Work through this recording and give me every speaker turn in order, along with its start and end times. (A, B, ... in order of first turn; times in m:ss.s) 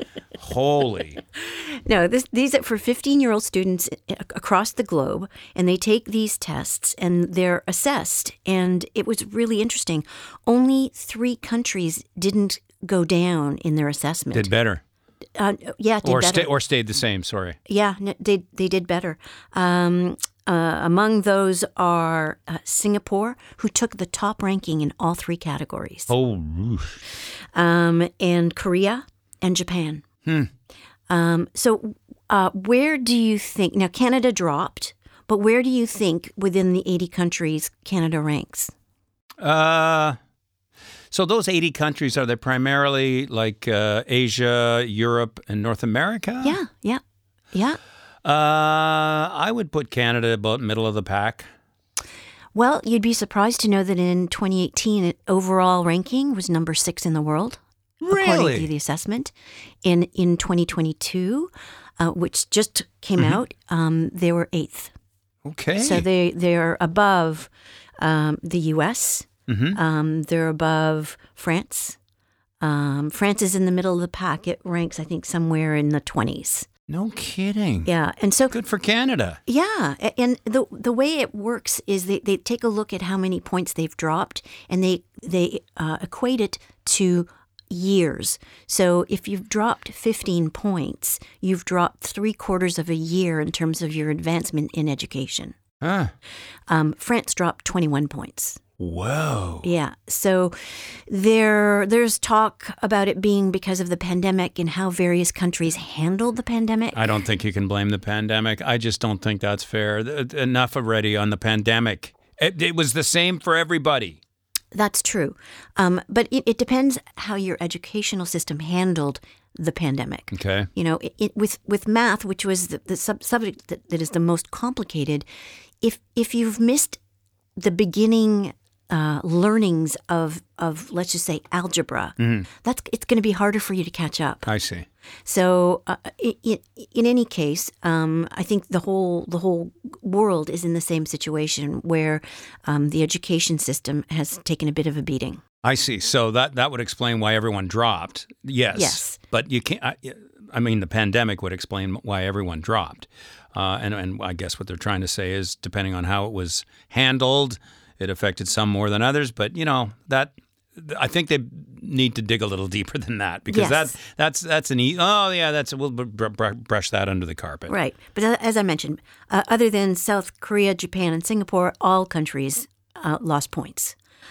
0:00.4-0:01.2 A
0:01.4-0:14.5 B
0:14.3-0:14.8 A
0:15.3-0:16.5 B
0:16.0-0:17.6 A
0:17.7-0:26.1 B
0:26.1-0:27.0 A
0:27.5-0:30.0 B
0:31.1-0:38.7 B
0:39.4-0:40.2 A
0:41.1-0:46.6 A
0:46.4-0:47.0 B
0:47.5-0:47.8 B
0:48.2-0:51.5 A
0:52.5-0:59.3 B
0:58.0-0:58.7 A
0:59.8-1:04.9 B
1:05.4-1:06.0 A
1:05.8-1:12.0 B
1:09.5-1:09.8 A
1:12.6-1:16.7 B
1:16.9-1:17.9 A
1:17.8-1:18.5 B
1:18.5-1:19.4 A
1:19.5-1:35.5 B
1:35.8-1:36.1 A
1:36.7-1:38.6 B
1:38.8-1:39.7 A
1:39.6-1:47.0 B
1:46.9-1:54.2 A
1:54.7-2:05.3 B
2:00.3-2:00.7 A
2:05.8-2:07.0 B
2:07.6-2:14.5 B
2:12.2-2:12.5 A
2:14.5-2:14.9 A
2:15.2-2:25.4 B
2:25.6-2:47.7 A
2:28.7-2:29.2 B
2:43.5-2:44.0 B
2:47.7-2:54.0 B